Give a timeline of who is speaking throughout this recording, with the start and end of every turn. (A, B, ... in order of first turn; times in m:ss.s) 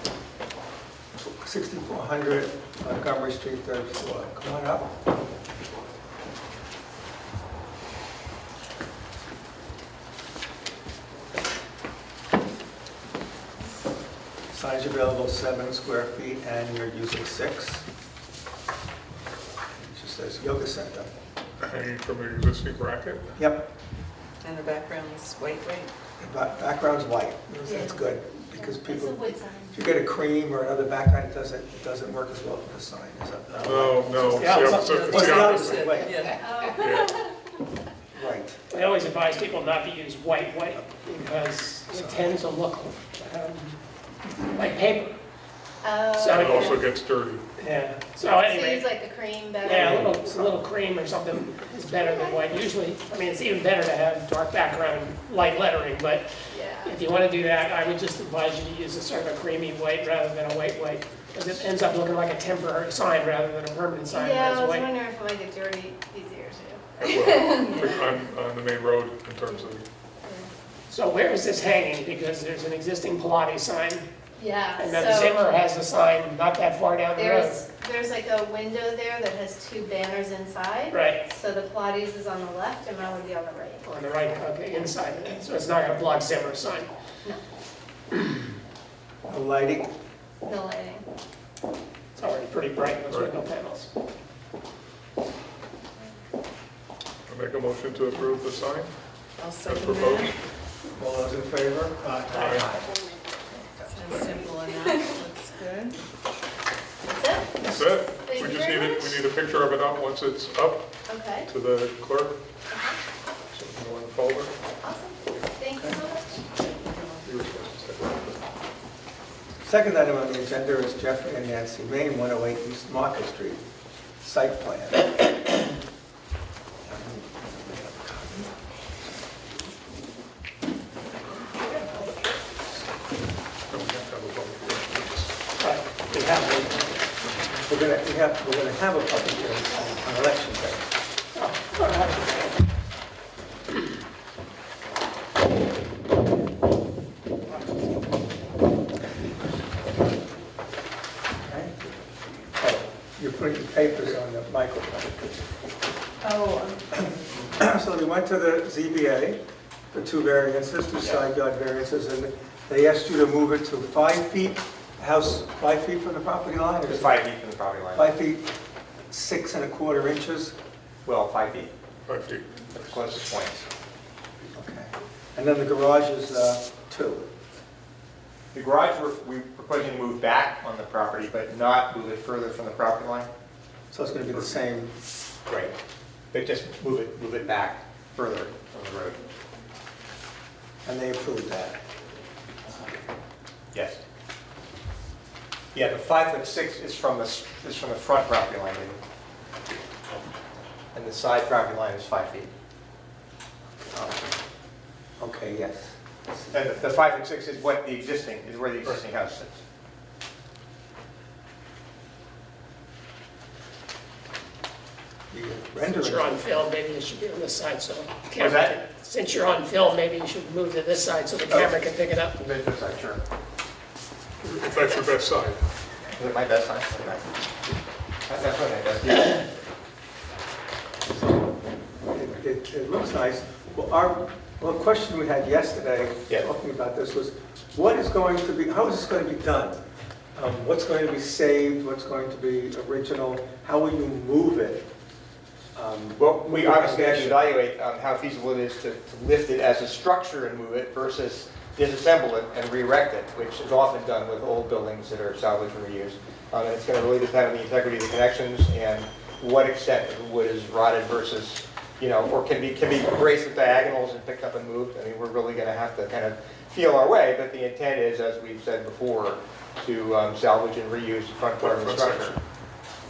0:01.2-0:04.9 A
0:14.5-0:17.8 A
0:19.7-0:21.1 A
0:21.6-0:23.3 B
0:23.4-0:23.7 A
0:24.4-0:25.9 C
0:26.2-0:36.3 A
0:27.6-0:29.8 D
0:33.6-0:36.0 B
0:34.3-0:35.6 E
0:34.7-0:36.4 C
0:36.3-0:37.2 D
0:36.8-0:37.2 B
0:38.1-0:38.6 A
0:38.7-0:43.8 E
0:41.9-0:42.4 A
0:44.4-0:45.2 E
0:45.8-0:46.8 D
0:46.2-0:46.8 E
0:46.3-0:47.4 B
0:47.6-0:48.0 A
0:47.6-0:48.8 E
0:48.2-0:50.3 D
0:49.6-0:56.3 E
0:49.8-0:50.1 A
0:52.0-0:52.6 D
0:56.5-0:56.9 D
0:56.8-1:04.9 E
1:04.1-1:07.9 D
1:07.0-1:09.8 B
1:10.2-1:10.5 D
1:10.9-1:14.0 E
1:14.4-1:15.4 D
1:14.8-1:17.6 E
1:17.2-1:23.8 D
1:20.9-1:21.2 E
1:23.8-1:26.9 E
1:29.3-1:29.9 A
1:30.4-1:31.0 D
1:32.2-1:33.9 E
1:37.3-1:38.9 B
1:39.4-1:40.3 C
1:39.6-1:40.3 B
1:40.9-1:42.9 A
1:42.3-1:42.7 B
1:43.5-1:44.4 A
1:43.9-1:46.0 C
1:44.2-1:45.1 D
1:47.0-1:47.6 D
1:47.6-1:50.9 B
1:48.2-1:49.2 D
1:51.1-1:51.5 D
1:51.4-1:52.4 B
1:52.7-1:53.0 D
1:53.5-1:54.5 B
1:54.8-1:56.9 D
1:57.1-1:58.4 B
1:59.6-2:03.6 A
2:04.2-2:05.6 A
2:06.8-2:08.6 A
2:11.6-2:12.1 E
2:13.7-2:15.3 B
2:15.6-2:15.9 E
2:16.1-2:16.9 A
2:17.6-2:20.9 A
2:21.3-2:22.6 E
2:31.4-2:32.0 A
2:32.6-2:35.4 A
2:36.2-2:36.8 D
2:37.1-2:39.4 A
2:39.9-2:47.3 A
2:46.9-2:48.1 F
2:47.9-2:48.5 A
2:49.1-2:50.5 A
2:51.0-2:51.7 F
2:52.0-2:52.6 B
2:52.7-2:53.6 F
2:54.5-2:57.2 A
2:58.5-3:03.3 F
3:03.9-3:04.9 A
3:05.5-3:05.7 F
3:06.3-3:09.2 F
3:10.8-3:11.8 A
3:13.7-3:14.0 F
3:15.7-3:19.0 F
3:20.9-3:22.5 F
3:23.9-3:24.2 A
3:25.2-3:26.5 A
3:26.5-3:29.6 F
3:35.3-3:36.5 A
3:35.8-3:42.3 E
3:38.4-3:38.7 F
3:42.3-3:43.2 F
3:44.4-3:45.6 B
3:46.2-3:47.3 F
3:48.2-3:49.4 F
3:51.1-3:51.5 A
3:52.1-3:59.8 A
4:00.3-4:04.8 A
4:05.7-4:07.5 A
4:06.2-4:32.4 F
4:31.6-4:32.4 B